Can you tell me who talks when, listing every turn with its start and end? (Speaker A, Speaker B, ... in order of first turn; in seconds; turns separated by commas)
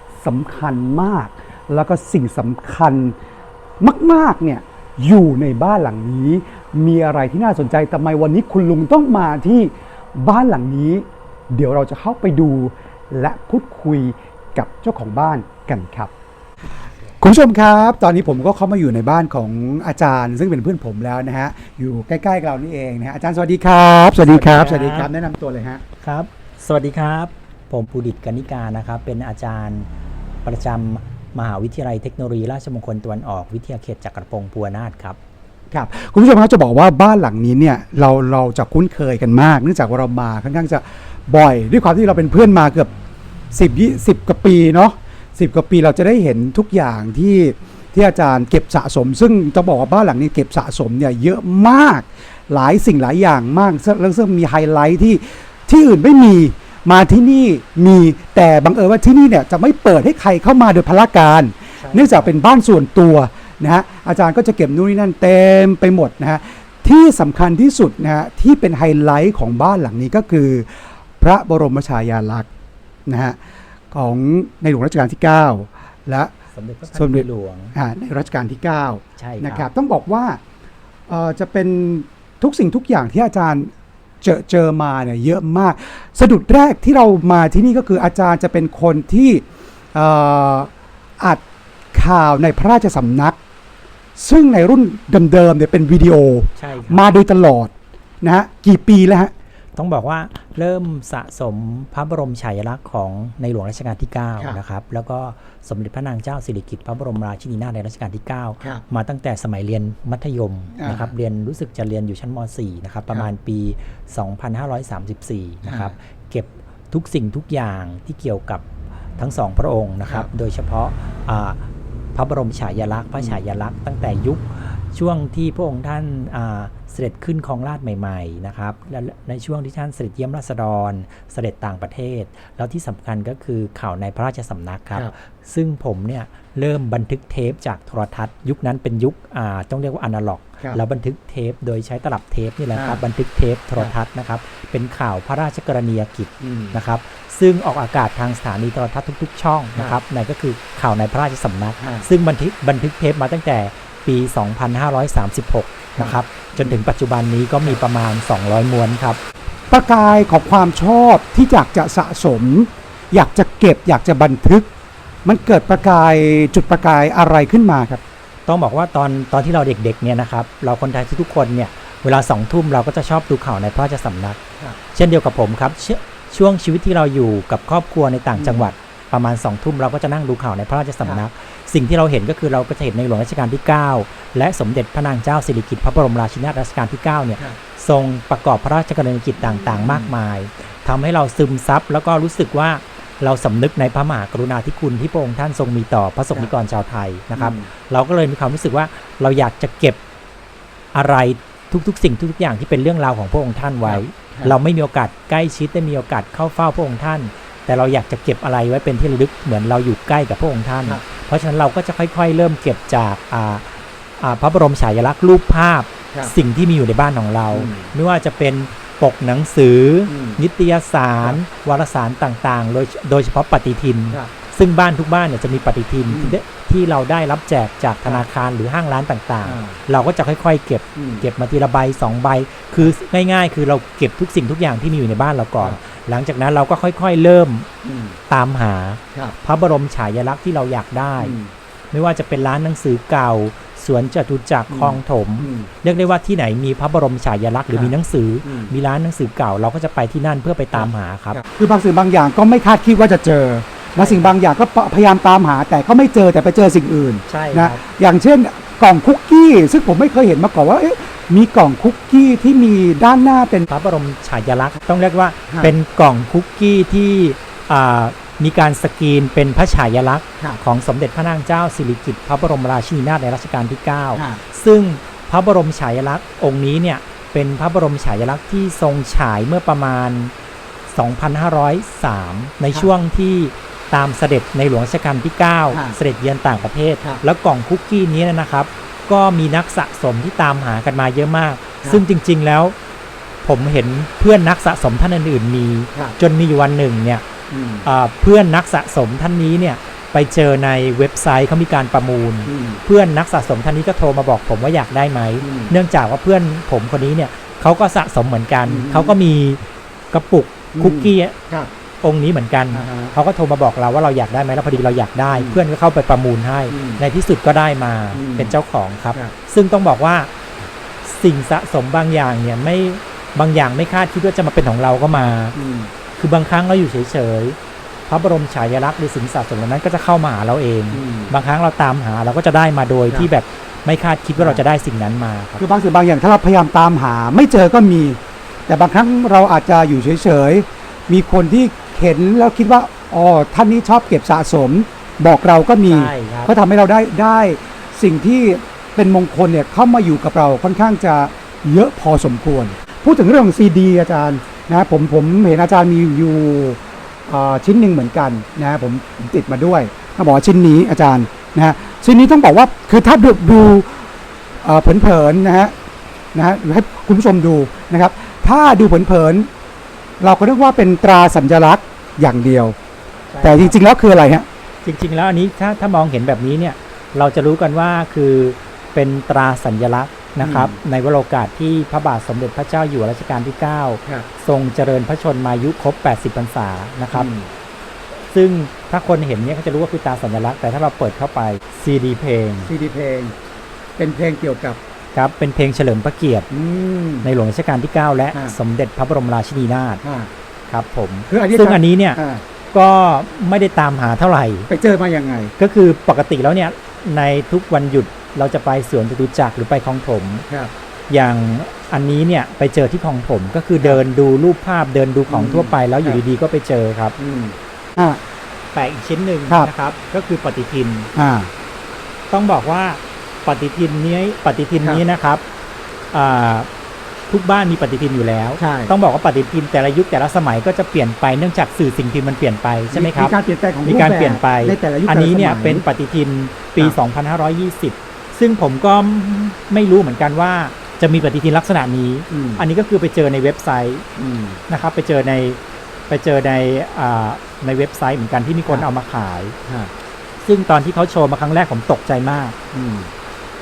Speaker A: 0.2-3.2, Speaker A: 3.8-16.1, Speaker A: 17.2-25.8, Speaker B: 24.2-25.1, Speaker B: 26.0-29.9, Speaker B: 30.4-35.2, Speaker A: 35.7-42.9, Speaker A: 43.5-70.7, Speaker B: 61.8-62.3, Speaker A: 71.2-72.5, Speaker A: 73.1-73.4, Speaker A: 73.9-76.3, Speaker B: 76.5-77.8, Speaker A: 76.9-80.4, Speaker B: 79.2-79.7, Speaker A: 81.1-83.7, Speaker A: 84.2-91.4, Speaker A: 91.9-93.4, Speaker A: 94.2-99.3, Speaker B: 96.6-97.0, Speaker B: 99.8-118.6, Speaker A: 110.8-111.1, Speaker A: 115.7-115.9, Speaker B: 119.2-121.6, Speaker B: 122.2-159.2, Speaker A: 142.7-143.0, Speaker A: 146.4-146.8, Speaker A: 151.8-152.1, Speaker A: 156.0-156.8, Speaker A: 159.7-164.7, Speaker A: 165.2-168.0, Speaker B: 168.5-174.4, Speaker B: 174.9-200.0, Speaker A: 178.3-178.7, Speaker A: 189.6-190.2, Speaker A: 197.3-197.7, Speaker B: 200.9-237.7, Speaker A: 203.8-204.6, Speaker A: 217.5-217.9, Speaker A: 220.1-220.4, Speaker A: 226.1-226.4, Speaker A: 229.4-229.8, Speaker A: 231.0-231.3, Speaker A: 237.8-238.2, Speaker B: 238.3-241.4, Speaker A: 241.2-241.5, Speaker B: 241.9-251.4, Speaker A: 244.7-245.7, Speaker A: 247.7-248.7, Speaker A: 250.7-263.7, Speaker B: 254.0-254.3, Speaker B: 257.3-257.8, Speaker B: 263.7-280.3, Speaker A: 265.5-265.7, Speaker A: 274.2-274.4, Speaker B: 280.9-292.8, Speaker A: 285.7-286.0, Speaker B: 293.4-297.2, Speaker A: 297.5-297.9, Speaker B: 297.9-309.6, Speaker A: 302.5-302.8, Speaker A: 305.4-305.8, Speaker A: 308.7-309.2, Speaker B: 310.1-311.4, Speaker A: 310.8-311.7, Speaker B: 312.0-320.3, Speaker A: 312.7-313.1, Speaker A: 315.3-315.6, Speaker A: 316.7-317.0, Speaker A: 318.1-318.6, Speaker B: 321.0-325.6, Speaker A: 325.6-325.9, Speaker B: 326.2-327.6, Speaker B: 328.1-335.6, Speaker A: 330.9-331.4, Speaker A: 335.6-364.1, Speaker B: 345.9-346.5, Speaker A: 364.6-365.7, Speaker A: 366.4-369.5, Speaker A: 370.2-372.8, Speaker B: 373.3-373.8, Speaker A: 373.4-374.5, Speaker B: 374.8-387.3, Speaker A: 380.4-380.8, Speaker A: 387.1-387.5, Speaker B: 388.3-392.7, Speaker A: 392.6-393.4, Speaker A: 394.0-394.8, Speaker B: 395.1-396.5, Speaker A: 396.5-397.3, Speaker B: 397.2-400.0, Speaker A: 400.0-400.3, Speaker B: 400.7-402.2, Speaker A: 401.3-402.4, Speaker B: 402.7-404.7, Speaker A: 404.7-405.5, Speaker B: 405.6-410.5, Speaker B: 411.1-417.1, Speaker A: 413.8-414.0, Speaker A: 415.3-416.2, Speaker A: 417.2-418.2, Speaker B: 418.7-421.1, Speaker A: 421.1-421.5, Speaker B: 422.3-425.4, Speaker B: 426.1-426.7, Speaker B: 427.3-444.1, Speaker A: 428.6-428.9, Speaker A: 432.9-435.9, Speaker A: 442.3-442.6, Speaker A: 444.2-444.6, Speaker B: 444.7-449.6, Speaker A: 449.7-449.9, Speaker B: 450.4-452.6, Speaker A: 452.7-453.1